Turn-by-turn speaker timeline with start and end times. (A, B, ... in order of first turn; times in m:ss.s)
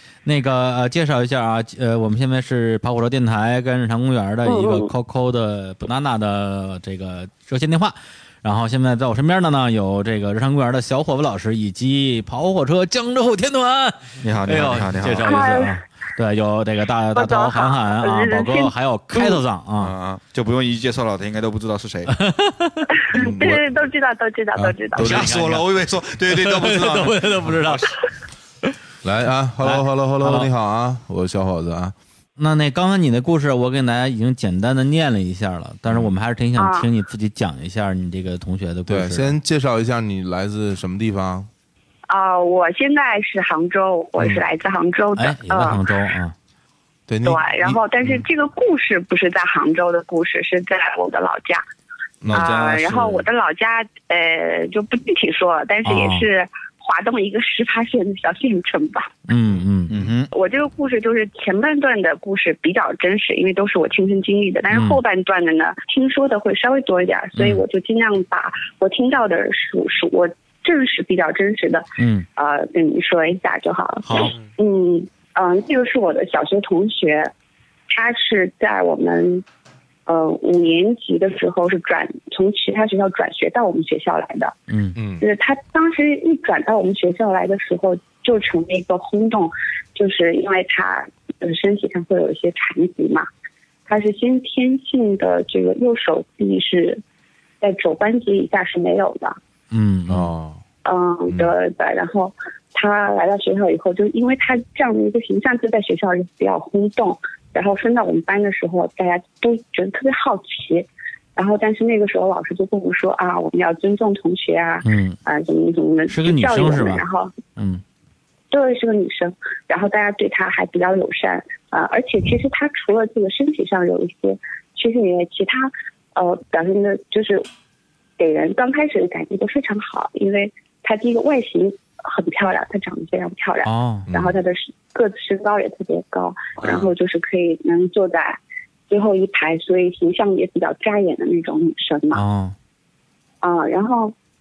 0:00.2-0:19.9 A
0:04.4-0:04.9 B
0:14.2-0:15.5 C
0:15.2-0:15.8 B
0:17.2-0:19.4 B
0:19.8-0:22.1 C
0:22.1-0:22.9 A
0:23.1-0:25.2 B
0:23.2-0:23.5 C
0:25.0-0:27.8 C
0:25.0-0:25.7 A
0:26.3-0:27.9 A
0:29.0-0:31.9 D
0:29.6-0:30.5 A
0:32.4-0:39.4 A
0:36.6-0:36.9 B
0:38.9-0:41.5 D
0:42.1-0:45.8 B
0:45.2-0:46.4 A
0:47.1-0:48.2 D
0:47.2-0:51.6 B
0:52.2-0:53.2 D
0:52.3-0:53.0 C
0:52.3-0:59.2 B
0:55.8-0:56.3 A
0:59.3-1:00.0 A
0:59.9-1:00.3 C
1:00.3-1:17.3 B
1:04.7-1:05.0 A
1:07.4-1:07.6 A
1:12.0-1:12.3 A
1:14.0-1:14.3 A
1:17.9-1:19.4 B
1:20.1-1:24.6 B
1:24.7-1:25.0 A
1:25.0-1:25.2 D
1:25.2-1:33.3 B
1:33.9-1:37.0 B
1:37.6-1:39.4 B
1:39.7-1:40.3 A
1:40.1-1:40.6 D
1:40.8-1:57.3 B
1:54.8-1:55.2 A
1:56.1-1:57.0 A
1:57.6-1:57.8 A
1:58.5-2:07.5 B
2:08.2-2:22.2 B
2:13.6-2:14.1 A
2:14.1-2:14.4 D
2:22.1-2:22.6 A
2:23.4-2:24.2 B